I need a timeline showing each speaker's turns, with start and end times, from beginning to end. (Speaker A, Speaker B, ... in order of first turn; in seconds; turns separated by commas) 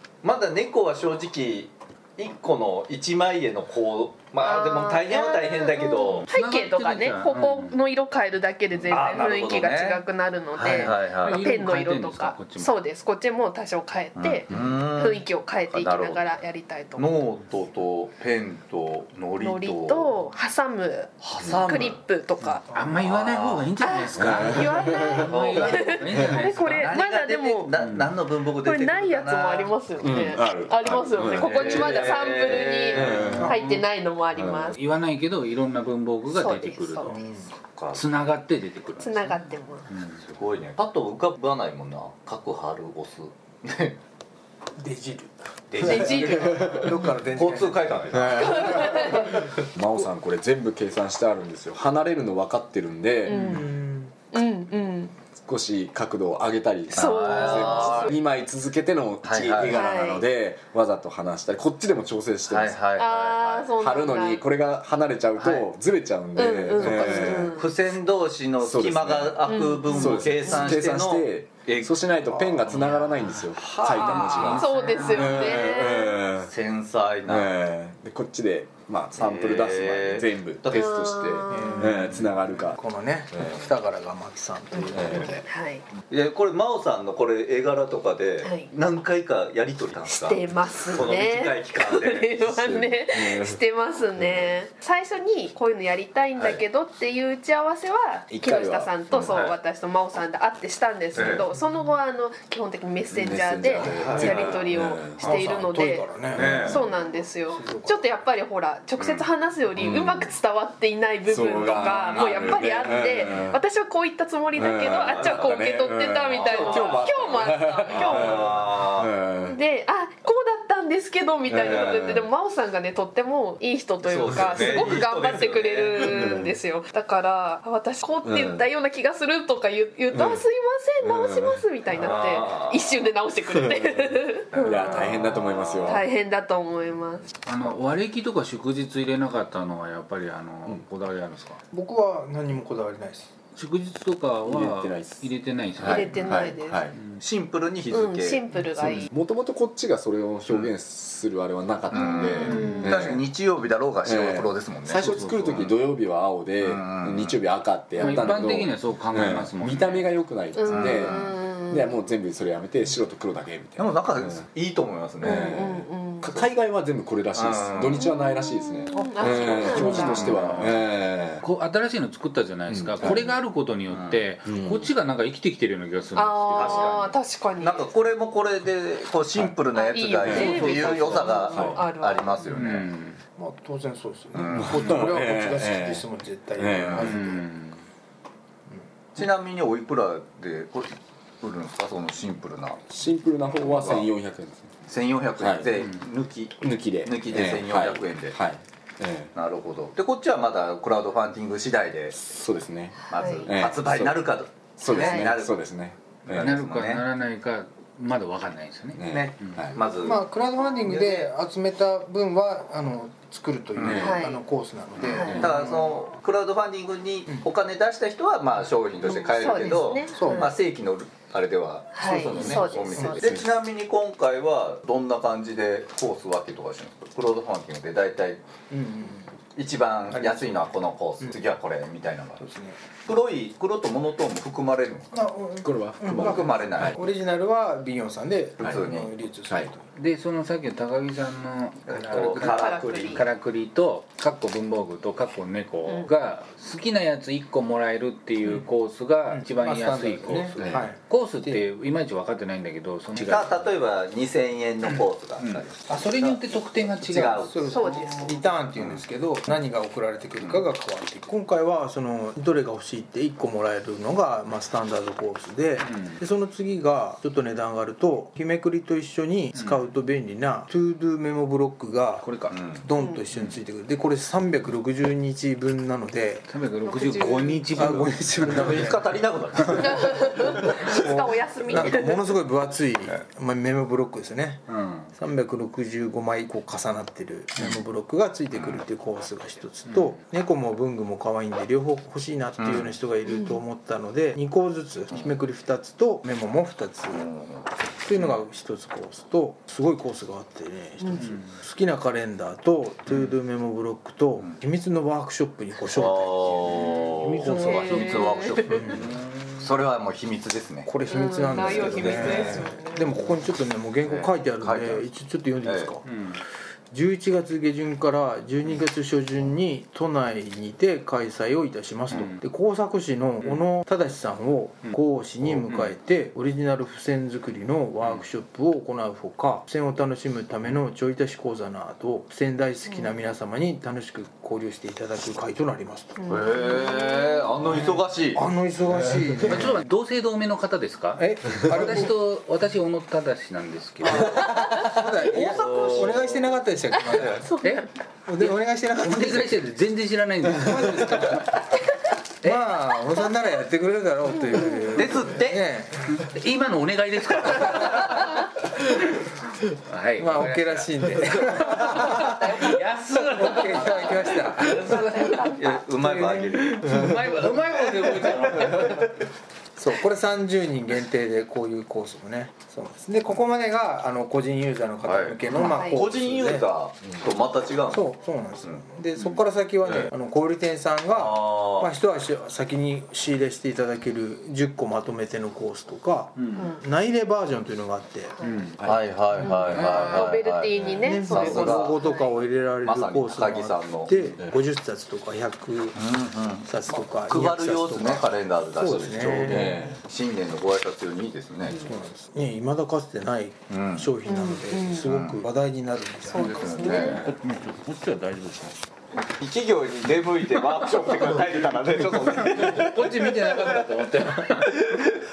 Speaker A: 0.2-6.3, Speaker B: 4.4-17.1, Speaker C: 6.3-7.8, Speaker A: 8.8-10.0, Speaker A: 10.5-11.5, Speaker C: 10.7-12.7, Speaker A: 14.2-16.2, Speaker A: 17.0-20.1, Speaker B: 19.4-21.1, Speaker A: 21.2-22.0, Speaker B: 21.6-22.6, Speaker C: 22.4-27.0, Speaker A: 23.0-23.7, Speaker B: 23.8-27.7, Speaker D: 24.2-25.2, Speaker A: 25.3-25.8, Speaker A: 26.8-29.7, Speaker C: 27.8-28.1, Speaker B: 28.6-34.8, Speaker D: 30.0-31.9, Speaker A: 31.3-33.3, Speaker D: 32.9-33.6, Speaker E: 33.3-33.6, Speaker D: 34.4-34.7, Speaker C: 34.7-37.1, Speaker B: 36.3-37.5, Speaker E: 37.1-37.5, Speaker A: 37.6-38.0, Speaker C: 37.9-40.2, Speaker B: 39.0-39.9, Speaker A: 40.2-44.0, Speaker E: 44.8-49.3, Speaker A: 45.7-46.3, Speaker B: 45.8-46.8, Speaker D: 46.3-47.1, Speaker A: 47.3-49.1, Speaker D: 48.1-53.6, Speaker B: 48.6-49.3, Speaker B: 53.3-53.7, Speaker E: 53.4-54.1, Speaker B: 54.3-55.1, Speaker D: 55.5-62.8, Speaker B: 56.9-58.2, Speaker A: 57.0-58.1, Speaker A: 59.2-59.8, Speaker B: 59.7-60.2, Speaker A: 62.5-63.7, Speaker B: 63.0-64.4, Speaker D: 63.8-67.6, Speaker A: 65.3-65.7, Speaker B: 66.4-67.7, Speaker E: 66.8-67.5, Speaker A: 66.9-72.8, Speaker D: 68.6-76.5, Speaker B: 69.5-70.7, Speaker C: 72.7-73.4, Speaker A: 73.5-74.6, Speaker B: 73.9-76.2, Speaker C: 74.0-75.7, Speaker A: 76.4-77.5, Speaker D: 77.3-82.8, Speaker A: 79.2-80.8, Speaker B: 80.7-82.0, Speaker E: 81.5-85.5, Speaker D: 83.3-83.7, Speaker B: 84.7-85.8, Speaker D: 84.9-85.3, Speaker A: 86.1-92.3, Speaker B: 88.4-88.7, Speaker B: 90.0-118.7, Speaker D: 92.4-93.6, Speaker D: 94.2-94.5, Speaker D: 98.3-99.4, Speaker D: 101.2-101.4, Speaker A: 101.2-101.5, Speaker D: 103.1-105.2, Speaker E: 103.8-104.6, Speaker A: 103.9-104.3, Speaker E: 105.2-106.8, Speaker A: 106.3-106.8, Speaker D: 106.4-106.8, Speaker E: 107.5-108.0, Speaker A: 109.0-109.2, Speaker D: 109.8-110.3, Speaker D: 111.3-113.6, Speaker D: 114.5-119.6, Speaker A: 116.4-117.3, Speaker A: 117.9-119.1, Speaker B: 119.5-137.2, Speaker D: 121.5-122.3, Speaker A: 124.1-126.1, Speaker D: 126.1-126.5, Speaker D: 128.2-128.6, Speaker D: 130.1-130.4, Speaker D: 131.0-131.6, Speaker A: 132.0-132.8, Speaker D: 133.6-136.1, Speaker A: 134.6-135.1, Speaker C: 137.5-141.6, Speaker E: 141.7-143.3, Speaker C: 143.6-146.4, Speaker D: 144.5-147.0, Speaker B: 145.9-146.9, Speaker A: 147.2-148.4, Speaker B: 147.9-149.1, Speaker D: 148.7-153.2, Speaker C: 151.9-153.1, Speaker E: 152.0-152.6, Speaker A: 152.0-155.0, Speaker B: 152.4-152.9, Speaker D: 154.1-164.4, Speaker C: 154.9-155.7, Speaker A: 156.6-157.4, Speaker C: 158.0-160.1, Speaker B: 158.0-158.4, Speaker B: 160.6-162.0, Speaker A: 160.7-161.3, Speaker A: 163.8-165.4, Speaker B: 165.2-166.5, Speaker D: 165.2-171.4, Speaker A: 167.3-168.0, Speaker B: 168.0-170.6, Speaker C: 169.2-170.8, Speaker E: 169.3-170.2, Speaker C: 171.4-177.1, Speaker D: 172.7-173.3, Speaker A: 173.9-174.2, Speaker D: 174.5-174.9, Speaker B: 176.2-177.9, Speaker A: 176.6-182.9, Speaker B: 179.7-182.4, Speaker D: 180.2-180.7, Speaker E: 180.3-180.8, Speaker E: 181.4-181.7, Speaker D: 181.5-181.8, Speaker C: 182.5-183.2, Speaker E: 183.4-187.4, Speaker A: 184.3-184.8, Speaker D: 184.5-187.2, Speaker C: 187.0-187.8, Speaker A: 189.2-192.8, Speaker D: 192.9-194.7, Speaker A: 193.6-194.1, Speaker A: 194.9-198.4, Speaker D: 195.4-195.8, Speaker D: 196.6-199.3, Speaker A: 199.3-202.2, Speaker D: 202.2-206.6, Speaker A: 203.1-205.6, Speaker B: 203.2-203.5, Speaker B: 204.9-205.3, Speaker C: 206.3-209.7, Speaker A: 206.3-207.1, Speaker D: 208.9-209.8, Speaker A: 209.1-210.2, Speaker E: 210.0-215.9, Speaker A: 213.8-214.1, Speaker D: 213.8-214.2, Speaker B: 213.9-214.4, Speaker A: 215.0-228.4, Speaker B: 215.1-215.4, Speaker B: 219.0-220.6, Speaker E: 219.5-220.5, Speaker B: 221.9-223.2, Speaker E: 222.1-223.4, Speaker D: 223.2-223.4, Speaker E: 228.7-229.3, Speaker A: 229.6-232.5, Speaker E: 230.1-231.4, Speaker E: 232.5-232.8, Speaker A: 233.0-235.1, Speaker E: 235.2-239.8, Speaker D: 235.6-236.9, Speaker A: 236.2-237.0, Speaker A: 238.6-239.1, Speaker C: 240.0-253.7, Speaker A: 241.9-243.2, Speaker B: 242.2-243.3, Speaker E: 249.6-251.6, Speaker D: 250.6-250.9, Speaker A: 253.2-257.6, Speaker C: 254.8-258.4, Speaker E: 257.6-272.3, Speaker B: 257.6-258.5, Speaker A: 260.4-260.6, Speaker C: 265.8-266.2, Speaker C: 269.6-269.9, Speaker C: 272.2-272.7, Speaker A: 272.5-272.8, Speaker E: 272.8-276.5, Speaker B: 272.9-273.2, Speaker C: 273.3-273.6, Speaker C: 276.5-279.0, Speaker B: 276.9-278.0, Speaker E: 277.8-279.1, Speaker A: 278.6-280.3, Speaker E: 279.6-284.6, Speaker B: 279.8-282.4, Speaker C: 284.7-285.1, Speaker E: 285.2-297.2, Speaker A: 288.5-288.9, Speaker C: 289.9-290.2, Speaker A: 292.6-293.0, Speaker B: 293.3-293.6, Speaker A: 295.1-295.4, Speaker A: 297.1-298.4, Speaker E: 298.0-306.8, Speaker C: 301.2-301.5, Speaker A: 305.8-310.9, Speaker C: 306.7-309.5, Speaker E: 307.4-308.0, Speaker B: 307.4-308.6, Speaker E: 308.7-309.0, Speaker E: 310.9-316.0, Speaker B: 311.1-313.1, Speaker C: 311.8-312.3, Speaker A: 312.2-312.5, Speaker A: 314.0-315.1, Speaker A: 315.6-316.0, Speaker C: 316.0-316.4, Speaker E: 316.9-336.2, Speaker C: 322.1-322.4, Speaker C: 325.6-326.0, Speaker B: 332.9-333.1, Speaker B: 336.2-337.5, Speaker A: 336.3-338.5, Speaker E: 337.7-339.8, Speaker C: 339.5-346.3, Speaker E: 341.2-342.1, Speaker E: 344.1-347.5, Speaker A: 345.5-346.2, Speaker B: 347.4-347.9, Speaker C: 347.6-351.6, Speaker E: 348.3-349.5, Speaker E: 350.7-351.5, Speaker C: 352.4-353.2, Speaker E: 352.4-355.9, Speaker B: 354.5-355.0, Speaker A: 354.9-355.6, Speaker C: 356.1-365.6, Speaker E: 360.2-362.6, Speaker E: 363.4-365.4, Speaker B: 364.8-365.8, Speaker A: 365.6-366.9, Speaker E: 366.0-367.1, Speaker C: 366.8-369.2, Speaker E: 369.8-376.7, Speaker A: 375.0-378.1, Speaker B: 375.6-376.1, Speaker E: 377.9-388.9, Speaker A: 378.6-380.1, Speaker A: 381.1-381.9, Speaker C: 386.4-386.7, Speaker B: 386.6-386.8, Speaker B: 388.4-388.7, Speaker C: 388.4-388.8, Speaker A: 388.9-392.0, Speaker B: 389.4-392.5, Speaker C: 389.5-390.1, Speaker E: 391.0-395.9, Speaker A: 392.8-394.2, Speaker A: 395.9-401.9, Speaker E: 396.7-399.9, Speaker D: 399.4-400.0, Speaker E: 401.9-407.2, Speaker A: 403.7-404.1, Speaker B: 404.3-405.1, Speaker A: 405.0-405.5, Speaker B: 406.3-407.2, Speaker C: 406.3-408.7, Speaker A: 406.4-407.0, Speaker D: 406.9-407.2, Speaker A: 409.4-413.5, Speaker C: 412.0-415.0